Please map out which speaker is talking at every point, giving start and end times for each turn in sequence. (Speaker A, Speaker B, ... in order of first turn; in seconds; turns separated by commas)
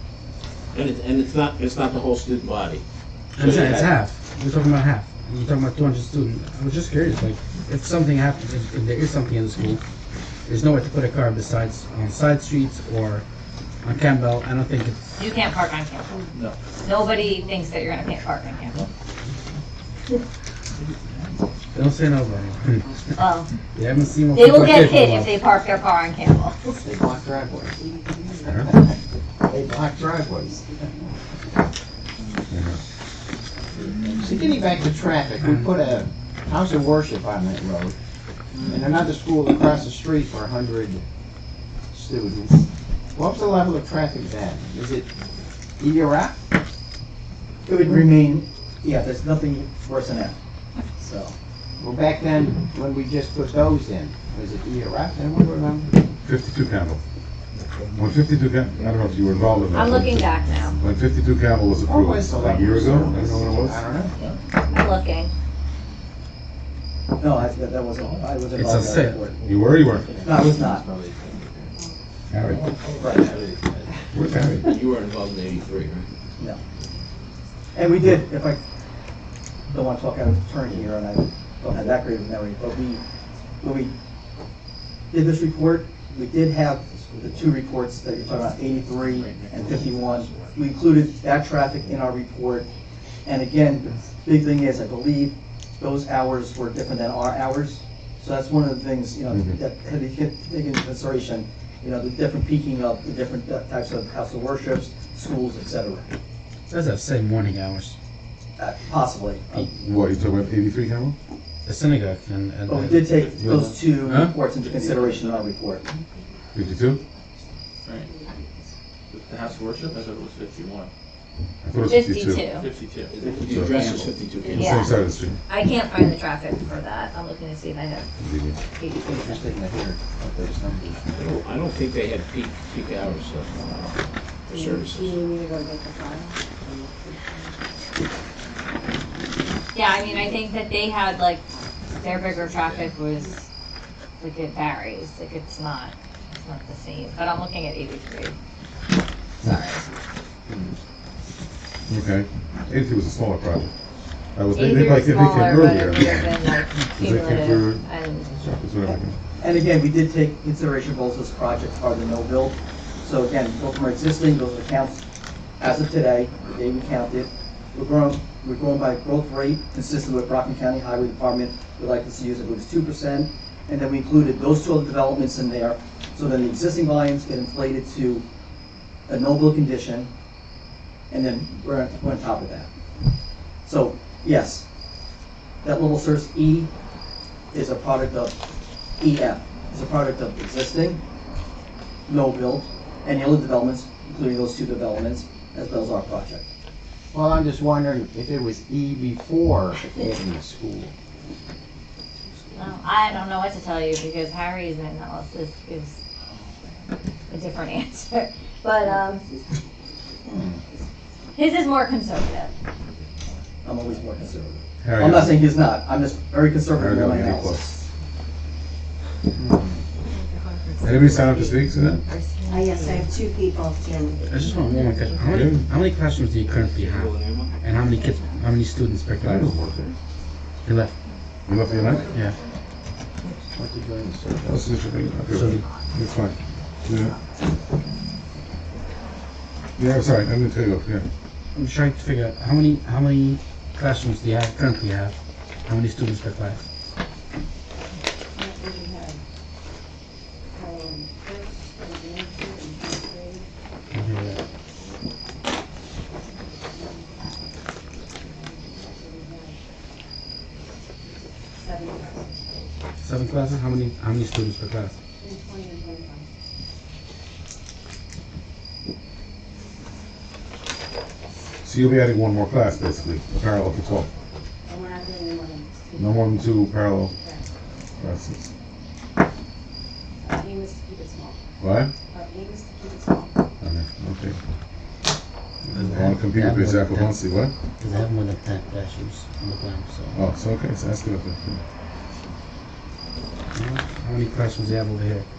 Speaker A: 0.7-2.8, Speaker B: 3.4-9.8, Speaker A: 3.4-4.0, Speaker B: 10.5-13.2, Speaker B: 13.8-15.0, Speaker C: 15.2-16.3, Speaker C: 16.8-18.8, Speaker B: 21.7-23.1, Speaker C: 23.1-23.5, Speaker B: 23.7-25.4, Speaker C: 24.3-26.8, Speaker D: 26.8-27.8, Speaker E: 27.7-28.6, Speaker D: 28.5-30.9, Speaker E: 30.4-31.0, Speaker F: 32.5-32.8, Speaker G: 33.8-34.3, Speaker D: 34.1-37.9, Speaker B: 35.4-35.7, Speaker D: 38.6-41.0, Speaker D: 41.9-45.1, Speaker D: 45.8-46.4, Speaker H: 47.6-50.4, Speaker H: 51.0-51.3, Speaker D: 51.8-55.9, Speaker F: 56.2-57.0, Speaker F: 57.9-63.8, Speaker C: 59.7-60.8, Speaker D: 61.8-64.1, Speaker G: 63.0-63.4, Speaker C: 64.6-65.3, Speaker H: 67.2-69.4, Speaker B: 68.5-69.3, Speaker F: 69.4-70.1, Speaker A: 69.5-71.7, Speaker H: 70.2-70.8, Speaker B: 72.3-72.6, Speaker A: 72.5-74.0, Speaker H: 73.0-73.2, Speaker F: 74.1-74.7, Speaker A: 74.6-76.1, Speaker H: 77.7-78.6, Speaker H: 79.7-83.0, Speaker H: 83.6-83.9, Speaker H: 85.1-92.7, Speaker A: 88.9-90.6, Speaker G: 89.4-89.8, Speaker H: 93.2-106.1, Speaker B: 106.7-108.0, Speaker H: 108.6-109.7, Speaker F: 109.7-111.2, Speaker B: 111.6-113.7, Speaker H: 112.7-115.8, Speaker G: 113.1-113.4, Speaker G: 114.6-115.3, Speaker F: 116.5-117.0, Speaker G: 117.8-118.1, Speaker E: 117.9-118.7, Speaker G: 119.1-120.9, Speaker F: 121.6-122.5, Speaker C: 121.8-122.7, Speaker G: 122.5-124.1, Speaker A: 123.1-124.7, Speaker F: 123.5-123.9, Speaker F: 124.5-125.4, Speaker C: 124.5-125.0, Speaker C: 125.5-128.1, Speaker F: 128.2-128.6, Speaker C: 128.8-129.4, Speaker D: 129.0-131.3, Speaker A: 131.1-133.9, Speaker A: 134.5-135.2, Speaker E: 134.5-137.5, Speaker C: 139.7-141.4, Speaker C: 142.0-143.4, Speaker A: 142.5-142.9, Speaker C: 144.2-148.3, Speaker C: 149.4-149.9, Speaker F: 151.9-153.7, Speaker F: 154.3-156.3, Speaker C: 154.5-158.3, Speaker F: 157.0-159.2, Speaker H: 159.4-165.0, Speaker H: 165.6-178.2, Speaker H: 179.1-180.1, Speaker H: 181.1-182.7, Speaker H: 183.6-184.7, Speaker H: 185.6-186.7, Speaker H: 187.5-188.4, Speaker H: 189.0-191.0, Speaker H: 192.1-196.5, Speaker D: 197.1-200.9, Speaker C: 202.5-205.9, Speaker C: 207.3-209.2, Speaker C: 211.3-212.5, Speaker G: 213.2-214.0, Speaker H: 213.6-217.8, Speaker F: 214.8-215.4, Speaker F: 216.7-217.6, Speaker D: 219.4-219.8, Speaker C: 220.1-223.1, Speaker F: 220.8-222.0, Speaker E: 222.5-224.2, Speaker B: 224.2-229.5, Speaker F: 225.3-225.6, Speaker A: 226.5-227.6, Speaker F: 229.2-229.8, Speaker B: 230.6-230.9, Speaker F: 231.5-232.1, Speaker B: 232.1-232.4, Speaker D: 233.5-234.7, Speaker F: 234.4-237.2, Speaker B: 235.3-235.7, Speaker F: 239.8-241.1, Speaker B: 241.5-246.6, Speaker E: 248.3-249.2, Speaker E: 250.5-253.5, Speaker B: 253.9-254.4, Speaker E: 256.7-257.1, Speaker E: 258.3-259.6, Speaker E: 261.5-262.6, Speaker B: 263.0-264.9, Speaker E: 265.2-266.3, Speaker F: 271.6-274.1, Speaker E: 274.6-276.3, Speaker F: 275.9-277.1, Speaker E: 277.1-277.4, Speaker F: 278.0-278.5, Speaker E: 280.2-281.4, Speaker F: 281.6-281.9, Speaker E: 282.1-283.3, Speaker F: 283.6-284.4, Speaker B: 285.6-287.2, Speaker F: 285.8-287.5, Speaker B: 287.8-290.2, Speaker F: 290.1-291.6, Speaker B: 293.5-295.2